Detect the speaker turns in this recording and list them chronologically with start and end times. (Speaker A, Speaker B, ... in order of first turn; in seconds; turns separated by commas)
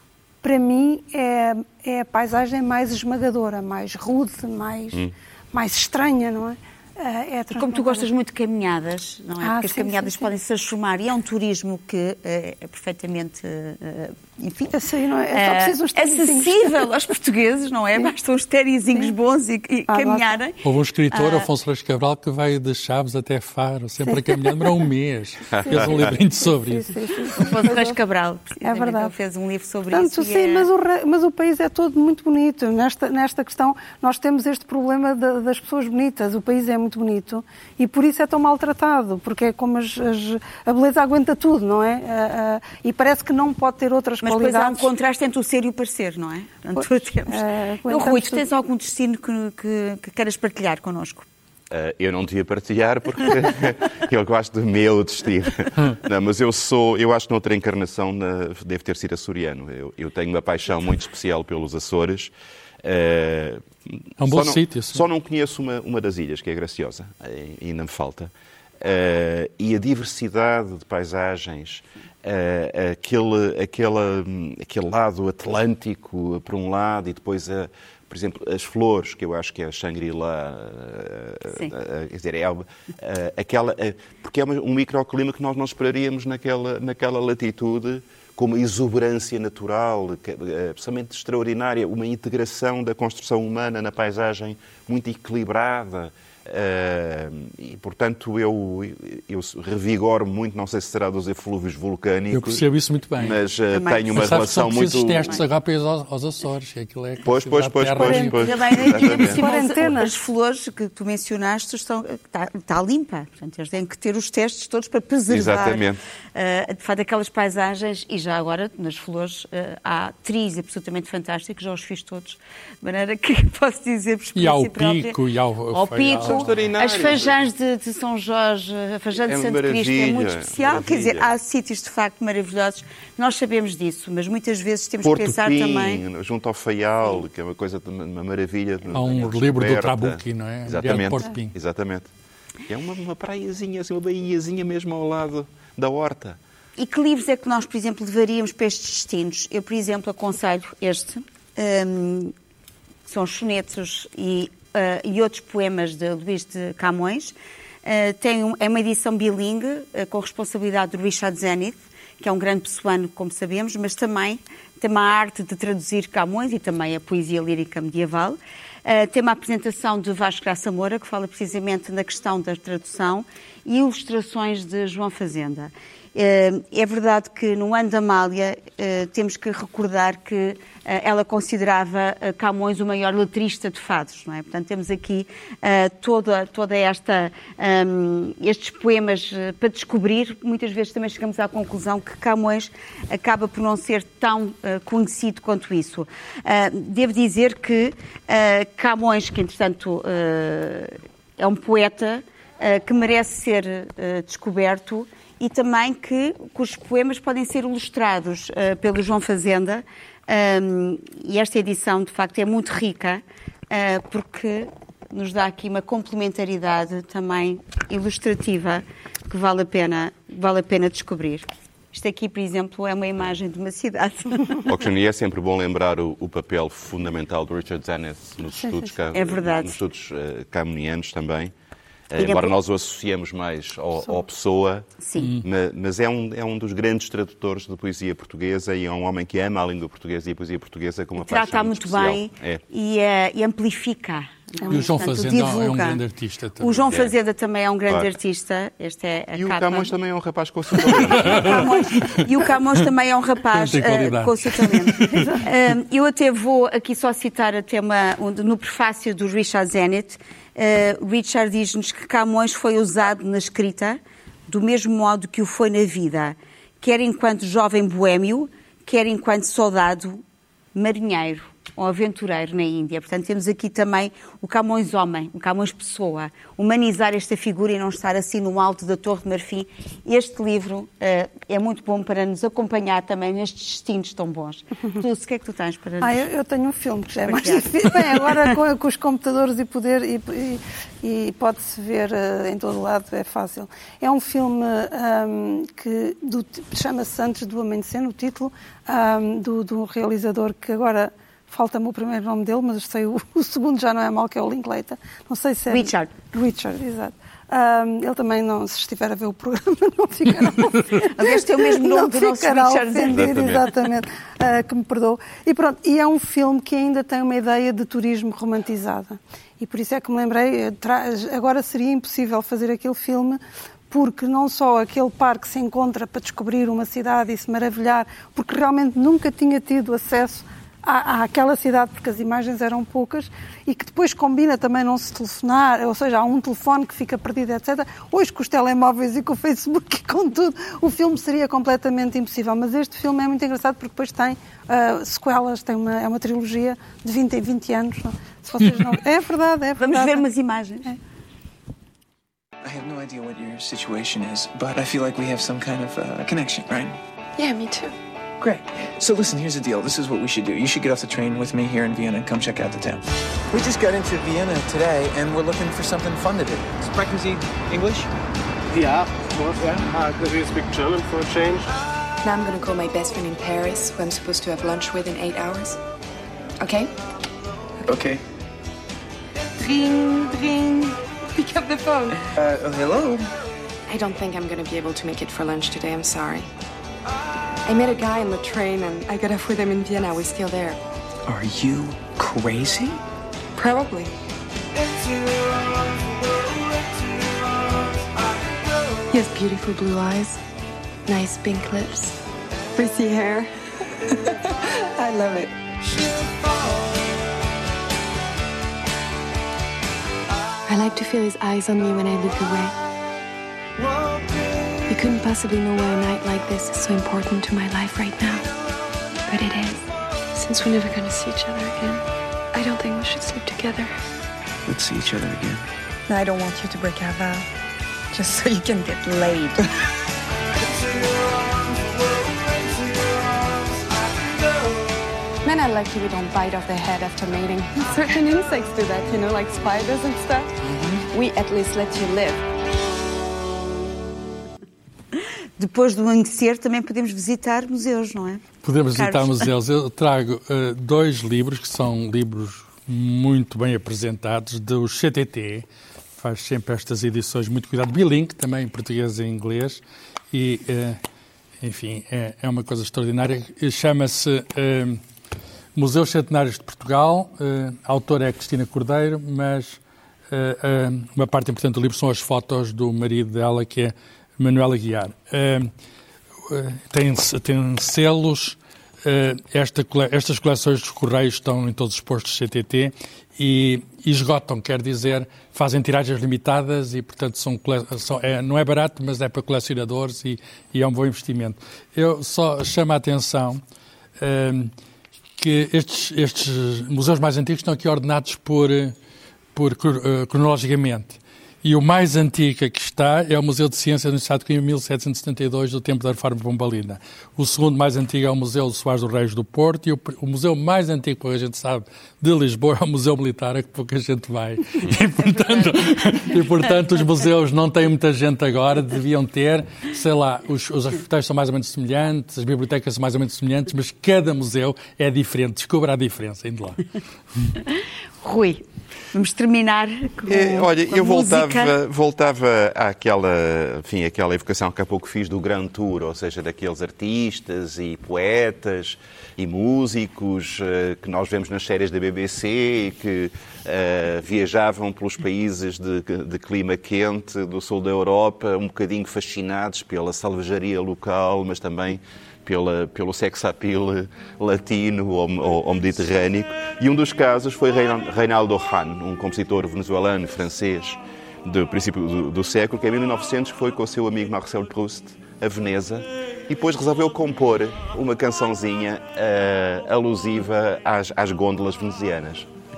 Speaker A: 0.4-8.1, Speaker B: 7.5-14.8, Speaker A: 9.4-10.3, Speaker A: 14.7-16.9, Speaker B: 15.3-20.6, Speaker A: 19.9-20.4, Speaker C: 20.6-26.9, Speaker B: 21.1-21.5, Speaker D: 25.5-26.1, Speaker A: 26.6-28.0, Speaker B: 27.4-30.7, Speaker A: 28.6-29.1, Speaker A: 29.9-44.9, Speaker B: 44.2-51.2, Speaker A: 46.8-48.5, Speaker D: 51.7-62.3, Speaker D: 62.8-102.6, Speaker C: 64.2-65.0, Speaker C: 102.3-103.4, Speaker D: 103.2-105.4, Speaker B: 103.7-104.4, Speaker C: 104.1-108.9, Speaker D: 107.2-109.5, Speaker B: 108.0-115.8, Speaker A: 109.0-110.1, Speaker D: 115.3-116.0, Speaker B: 116.3-125.2, Speaker C: 124.3-126.5, Speaker B: 125.7-136.0, Speaker D: 126.1-127.4, Speaker D: 129.1-131.3, Speaker D: 135.0-142.1, Speaker C: 138.9-141.5, Speaker D: 142.7-146.4, Speaker B: 146.8-152.3, Speaker B: 153.1-224.7, Speaker D: 224.7-231.5, Speaker A: 228.6-228.9, Speaker B: 229.1-229.8, Speaker D: 232.1-234.9, Speaker B: 232.1-232.5, Speaker B: 235.0-235.4, Speaker C: 235.2-235.4, Speaker D: 235.4-242.6, Speaker B: 241.2-246.0, Speaker A: 244.6-244.9, Speaker C: 244.7-246.9, Speaker B: 246.6-249.9, Speaker D: 246.9-247.2, Speaker D: 249.3-252.1, Speaker B: 251.0-270.2, Speaker C: 251.0-251.5, Speaker C: 253.5-255.3, Speaker A: 255.1-255.4, Speaker B: 270.7-286.2, Speaker A: 286.0-323.4, Speaker B: 287.2-288.4, Speaker B: 305.7-306.1, Speaker B: 311.0-313.5, Speaker D: 313.1-313.6, Speaker A: 323.9-350.3, Speaker B: 349.8-350.9, Speaker E: 352.6-357.0, Speaker F: 357.4-357.9, Speaker E: 358.4-368.1, Speaker G: 368.7-371.7, Speaker F: 372.3-375.7, Speaker E: 377.8-378.2, Speaker F: 379.6-382.2, Speaker E: 382.3-383.2, Speaker F: 383.9-386.4, Speaker F: 387.7-390.7, Speaker E: 391.2-393.0, Speaker F: 393.6-394.1, Speaker F: 399.1-400.3, Speaker F: 401.1-402.1, Speaker F: 402.8-403.5, Speaker F: 405.0-405.5, Speaker F: 410.7-412.7, Speaker F: 414.9-418.4, Speaker F: 419.3-419.7, Speaker F: 420.4-422.0, Speaker F: 422.6-423.9, Speaker E: 424.6-425.6, Speaker F: 426.1-427.4, Speaker F: 428.1-429.6, Speaker F: 435.4-440.5, Speaker E: 440.7-441.0, Speaker F: 441.1-442.4, Speaker B: 445.6-448.4, Speaker C: 448.6-455.6, Speaker B: 448.9-449.5, Speaker C: 456.2-459.8, Speaker C: 460.3-461.0, Speaker C: 461.6-465.0, Speaker C: 465.7-475.7, Speaker C: 476.5-493.6, Speaker C: 494.2-494.7, Speaker C: 495.4-498.9, Speaker C: 499.5-526.8, Speaker B: 515.4-515.7, Speaker B: 527.7-531.7, Speaker D: 530.3-572.5